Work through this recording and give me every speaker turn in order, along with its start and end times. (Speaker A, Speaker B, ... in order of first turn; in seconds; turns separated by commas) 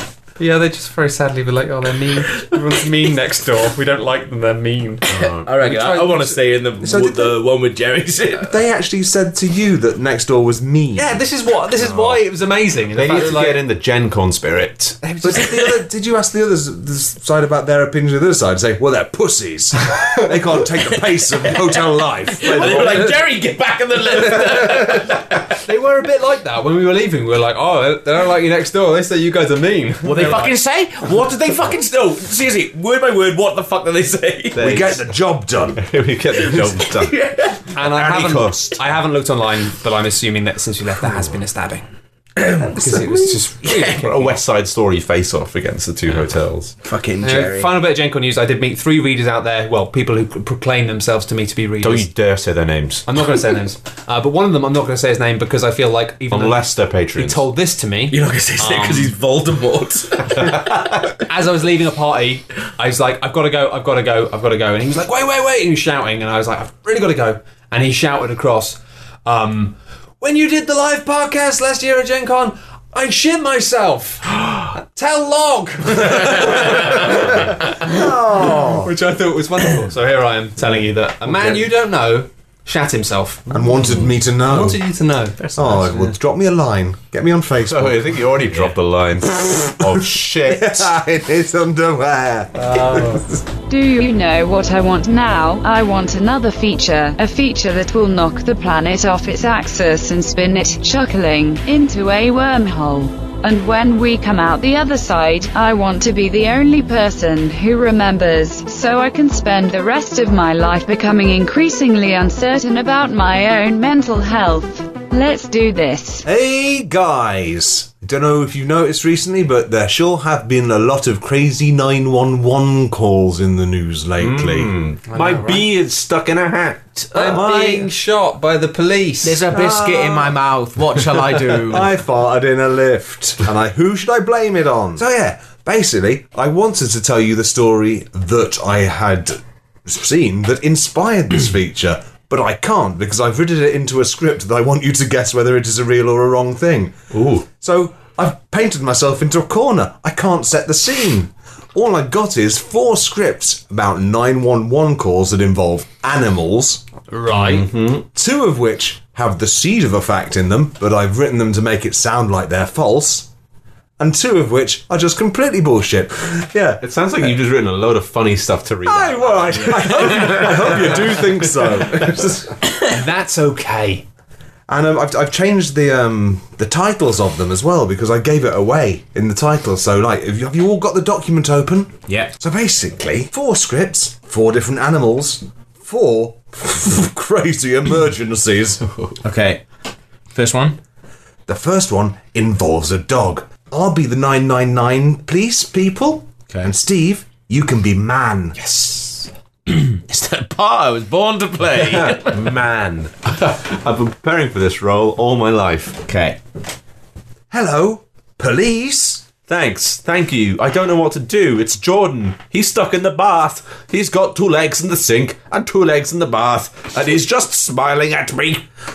Speaker A: 0.4-6.4, Speaker B: 5.1-5.5, Speaker C: 5.5-8.5, Speaker D: 6.8-7.4, Speaker D: 8.4-11.2, Speaker A: 11.0-13.6, Speaker B: 11.8-12.2, Speaker B: 12.9-15.0, Speaker A: 15.0-15.8, Speaker D: 15.2-23.2, Speaker C: 22.4-25.4, Speaker A: 22.5-23.1, Speaker A: 25.6-30.5, Speaker C: 30.1-34.8, Speaker B: 30.2-30.5, Speaker B: 34.5-35.0, Speaker D: 34.6-35.8, Speaker B: 35.8-37.2, Speaker C: 36.4-37.7, Speaker B: 37.7-38.8, Speaker A: 37.7-41.9, Speaker C: 42.4-42.8, Speaker A: 42.7-44.4, Speaker B: 43.8-46.8, Speaker C: 46.8-47.7, Speaker A: 47.2-52.1, Speaker B: 51.8-53.0, Speaker A: 53.1-59.1, Speaker B: 56.3-57.4, Speaker C: 58.1-60.6, Speaker B: 60.4-60.7, Speaker A: 61.3-83.5, Speaker D: 77.6-78.9, Speaker B: 81.3-81.6, Speaker D: 83.5-84.8, Speaker A: 84.4-85.4, Speaker C: 85.4-85.9, Speaker D: 85.5-88.3, Speaker B: 87.7-90.9, Speaker D: 89.8-93.4, Speaker A: 92.7-93.2, Speaker E: 93.7-116.3, Speaker D: 116.2-124.8, Speaker B: 124.2-127.5, Speaker A: 125.1-125.7, Speaker A: 127.1-129.4, Speaker D: 127.2-127.9, Speaker C: 129.2-131.9, Speaker D: 129.5-130.3, Speaker D: 131.4-147.0, Speaker B: 147.1-147.4, Speaker D: 147.5-156.8, Speaker A: 157.1-157.7, Speaker B: 157.3-158.1, Speaker D: 158.1-163.3, Speaker D: 164.0-166.8, Speaker B: 166.8-172.2, Speaker D: 168.8-172.6, Speaker A: 172.8-174.1, Speaker D: 174.7-188.8, Speaker C: 189.2-189.7, Speaker C: 190.3-190.8, Speaker D: 191.5-198.6, Speaker C: 199.7-202.5, Speaker B: 201.8-206.0, Speaker C: 206.1-206.4, Speaker D: 207.5-209.2, Speaker B: 209.5-218.6